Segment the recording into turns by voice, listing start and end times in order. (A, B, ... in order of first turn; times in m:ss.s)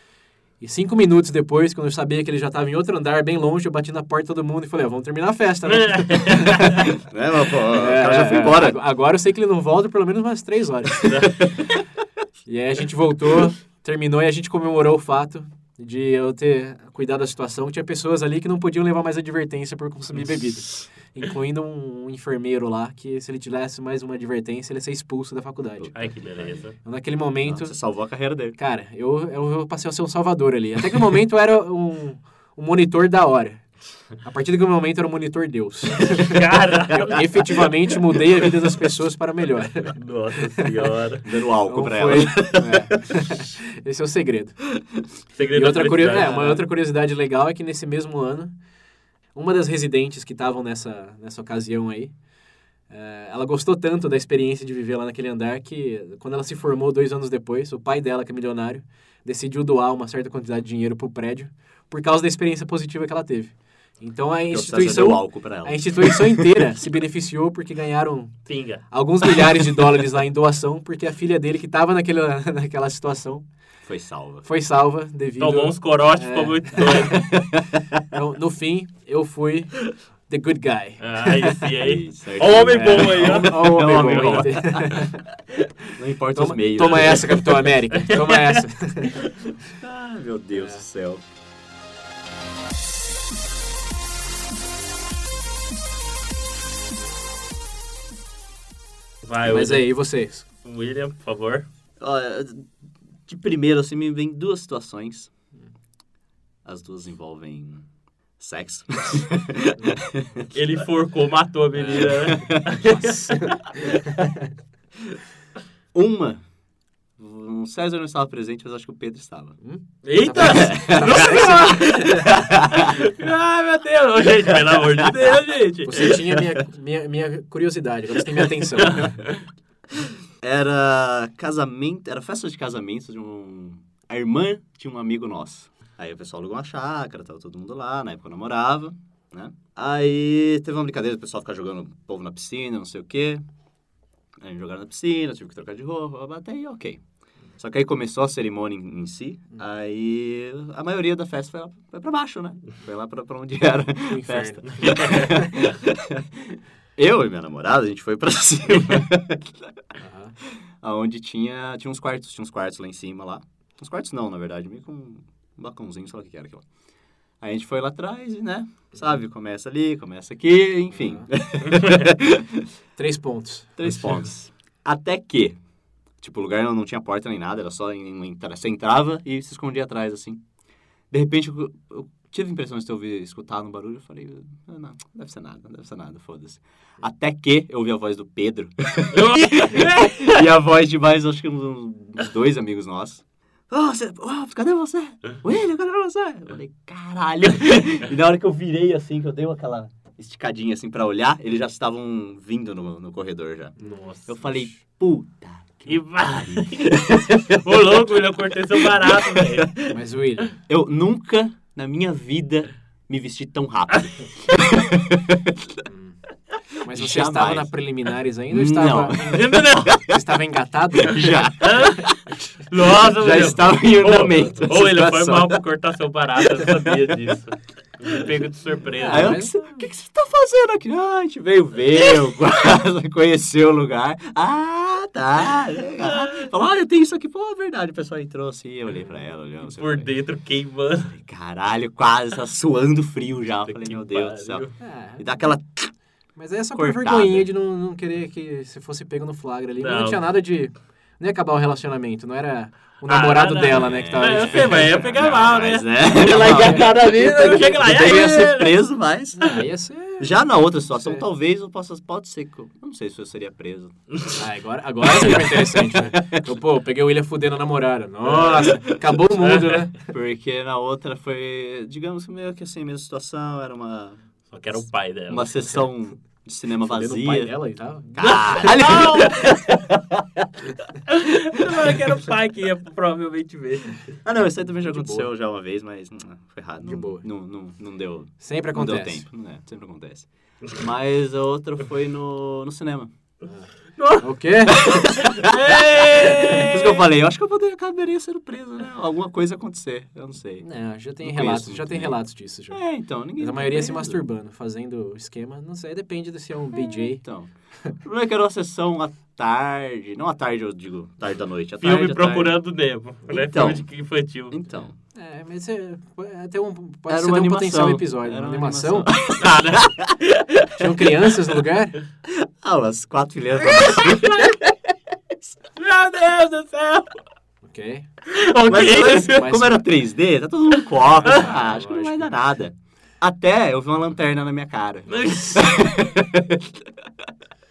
0:00.6-0:06.9 A
0:05.7-0:06.8 B
0:06.6-0:08.8 C
0:07.7-0:11.5 A
0:11.0-0:11.4 B
0:12.4-0:25.9 A
0:25.8-0:26.6 C
0:25.9-0:26.7 B
0:26.8-0:27.7 A
0:27.4-0:28.6 C
0:28.6-0:33.7 A
0:34.2-0:39.9 A
0:36.0-0:37.2 B
0:39.9-0:41.2 B
0:41.2-0:43.0 C
0:41.6-0:44.6 A
0:45.4-0:46.6 B
0:45.5-0:48.5 A
0:49.3-0:52.1 A
0:52.9-1:08.4 A
1:04.5-1:06.6 C
1:08.5-1:08.8 B
1:08.9-1:13.4 A
1:13.8-1:14.4 C
1:14.4-1:17.4 A
1:15.4-1:17.3 B
1:16.9-1:18.0 C
1:18.1-1:21.7 A
1:21.0-1:24.6 B
1:21.8-1:25.2 C
1:22.8-1:25.2 A
1:25.8-1:29.2 A
1:25.9-1:27.5 C
1:27.9-1:28.6 B
1:29.7-1:31.2 C
1:30.5-1:30.8 A
1:39.2-1:39.9 B
1:39.4-1:40.4 A
1:40.6-1:41.6 B
1:42.0-1:42.7 C
1:43.2-1:45.3 C
1:46.6-1:47.8 C
1:48.4-1:50.5 C
1:50.5-1:53.6 B
1:51.8-1:52.8 C
1:52.9-1:54.5 A
1:55.9-1:56.4 C
1:57.2-1:59.6 C
1:59.6-2:02.3 A
2:00.0-2:06.2 B
2:00.4-2:03.0 C
2:04.3-2:05.4 C
2:05.8-2:09.2 A
2:06.0-2:06.6 C
2:08.8-2:09.4 B
2:10.4-2:23.4 C
2:24.4-2:27.0 C
2:27.6-2:39.8 C
2:34.1-2:35.5 A
2:34.8-2:35.4 B
2:40.0-2:40.3 A
2:40.4-2:46.6 C
2:47.4-2:52.7 C
2:50.9-2:51.3 A
2:53.0-2:53.8 A
2:53.8-2:55.6 C
2:56.2-3:00.4 C
3:01.1-3:27.8 C
3:09.1-3:10.4 B
3:23.8-3:24.3 A
3:25.9-3:29.7 B
3:28.8-3:29.9 C
3:29.9-3:30.5 A
3:30.7-3:35.8 C
3:35.9-3:36.2 A
3:36.8-3:41.4 A
3:36.9-3:37.7 C
3:38.5-3:40.2 C
3:39.3-3:40.0 B
3:40.9-3:42.3 C
3:41.6-3:49.4 B
3:42.9-3:45.6 C
3:46.4-3:47.3 C
3:49.0-3:49.5 A
3:49.0-4:00.1 C
3:56.0-3:56.5 B
3:59.6-4:01.1 B
4:01.1-4:05.9 C
4:03.7-4:04.7 B
4:04.8-4:05.3 A
4:06.4-4:14.9 A
4:06.7-4:07.5 C
4:09.8-4:10.2 B
4:13.1-4:18.8 B
4:13.7-4:19.6 C
4:16.3-4:16.9 A
4:19.4-4:20.4 A
4:20.2-4:24.0 C
4:20.9-4:21.2 A
4:24.4-4:30.1 A
4:25.1-4:26.5 C
4:28.3-4:29.0 C
4:29.4-4:29.8 B
4:30.0-4:34.2 C
4:34.5-4:35.8 B
4:35.3-4:37.5 C
4:36.8-4:38.1 A
4:38.1-4:40.7 C
4:38.2-4:39.6 B
4:41.1-4:44.2 B
4:41.6-4:42.1 C
4:44.2-4:53.1 C
4:44.8-4:45.3 A
4:46.8-4:47.2 A
4:48.4-4:49.2 A
4:53.4-4:55.3 A
4:54.0-4:57.0 B
4:54.9-5:00.6 C
5:00.6-5:02.8 A
5:01.2-5:02.2 C
5:02.7-5:04.2 C
5:03.4-5:07.2 A
5:06.8-5:12.6 C
5:11.8-5:14.6 B
5:13.3-5:13.8 C
5:14.5-5:14.9 C
5:15.1-5:19.1 A
5:17.1-5:20.6 C
5:19.4-5:20.4 B
5:20.7-5:22.0 A
5:22.2-5:25.6 C
5:23.7-5:24.5 B
5:25.8-5:27.1 B
5:27.6-5:28.1 A
5:28.2-5:29.5 B
5:28.6-5:37.3 C
5:29.0-5:29.8 A
5:31.2-5:32.3 A
5:31.2-5:31.5 B
5:35.1-5:35.9 B